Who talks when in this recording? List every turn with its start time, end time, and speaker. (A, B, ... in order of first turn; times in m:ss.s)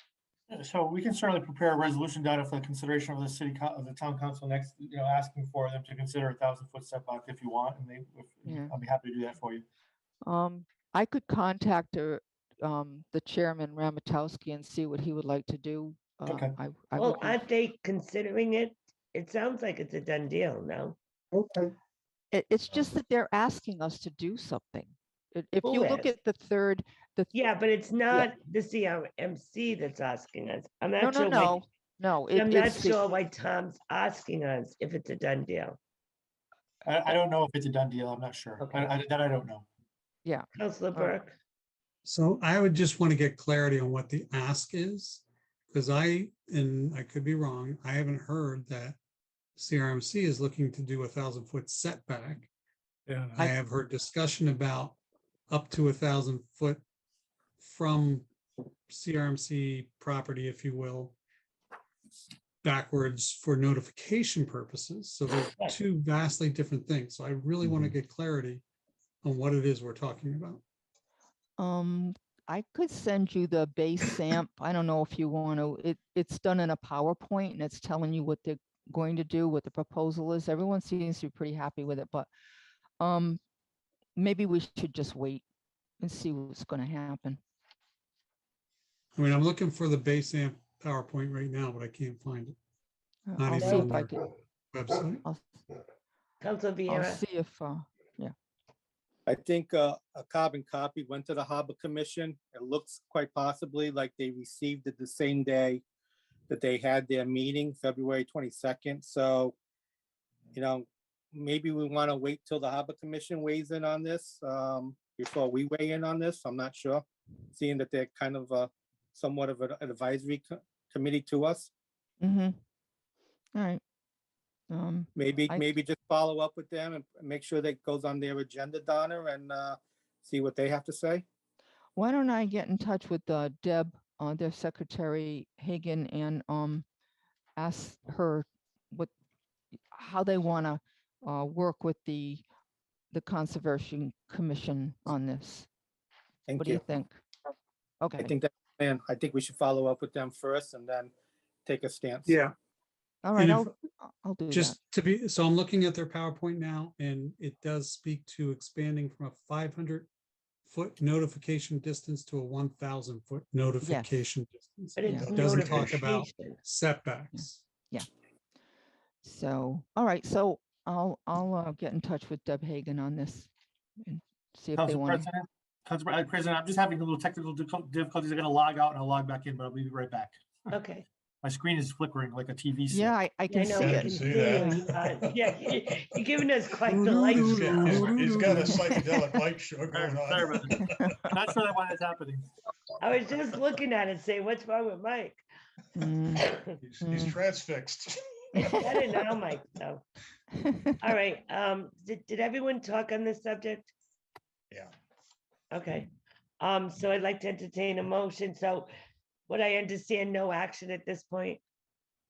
0:00.5-0:09.6 A
0:08.4-0:08.7 B
0:10.2-0:17.4 B
0:16.2-0:16.5 A
0:17.0-0:21.0 C
0:22.3-0:27.3 B
0:25.6-0:26.1 C
0:27.3-0:31.6 C
0:31.0-0:33.0 B
0:32.3-0:35.8 C
0:36.8-0:39.6 A
0:38.6-0:38.9 C
0:40.2-0:41.1 B
0:40.6-0:41.3 C
0:42.0-0:49.0 D
0:49.6-0:52.5 D
0:53.1-0:53.4 E
0:53.3-0:55.0 D
0:55.5-0:56.8 D
0:57.6-0:58.3 D
0:58.9-1:01.2 D
1:02.6-1:08.6 D
1:09.2-1:10.6 D
1:11.6-1:22.3 B
1:23.0-1:23.4 B
1:24.2-1:25.4 B
1:26.0-1:27.4 B
1:29.2-1:32.6 D
1:33.3-1:34.3 B
1:33.4-1:34.1 D
1:34.7-1:35.2 D
1:35.2-1:35.5 B
1:36.4-1:37.2 C
1:36.9-1:38.3 B
1:39.2-1:45.8 F
1:46.5-1:49.5 F
1:50.5-2:01.7 F
2:02.2-2:02.6 B
2:03.5-2:03.8 B
2:04.7-2:05.6 B
2:05.2-2:11.2 F
2:12.0-2:16.8 B
2:17.6-2:19.1 B
2:19.9-2:22.4 B
2:23.1-2:25.7 B
2:26.5-2:26.8 F
2:26.6-2:27.2 B
2:28.0-2:28.3 B
2:28.2-2:31.1 F
2:31.6-2:32.4 F
2:33.2-2:34.8 B
2:33.4-2:33.7 D
2:34.5-2:40.1 D
2:40.6-2:47.6 D
2:43.8-2:44.1 B
2:45.0-2:46.6 C
2:45.2-2:45.9 E
2:47.3-2:48.1 B
2:49.2-2:55.3 B
2:54.8-3:00.4 A
3:00.7-3:01.0 C
3:01.4-3:03.1 A
3:02.9-3:04.7 B
3:03.5-3:08.2 C
3:03.8-3:05.5 E
3:06.8-3:11.2 E
3:07.3-3:09.2 B
3:09.9-3:12.5 A
3:13.0-3:15.4 C
3:15.9-3:16.5 B
3:16.4-3:16.7 C
3:16.5-3:18.9 E
3:17.0-3:17.4 B
3:18.7-3:20.0 C
3:20.6-3:21.0 B
3:21.0-3:23.9 C
3:25.7-3:28.9 C
3:29.5-3:31.6 C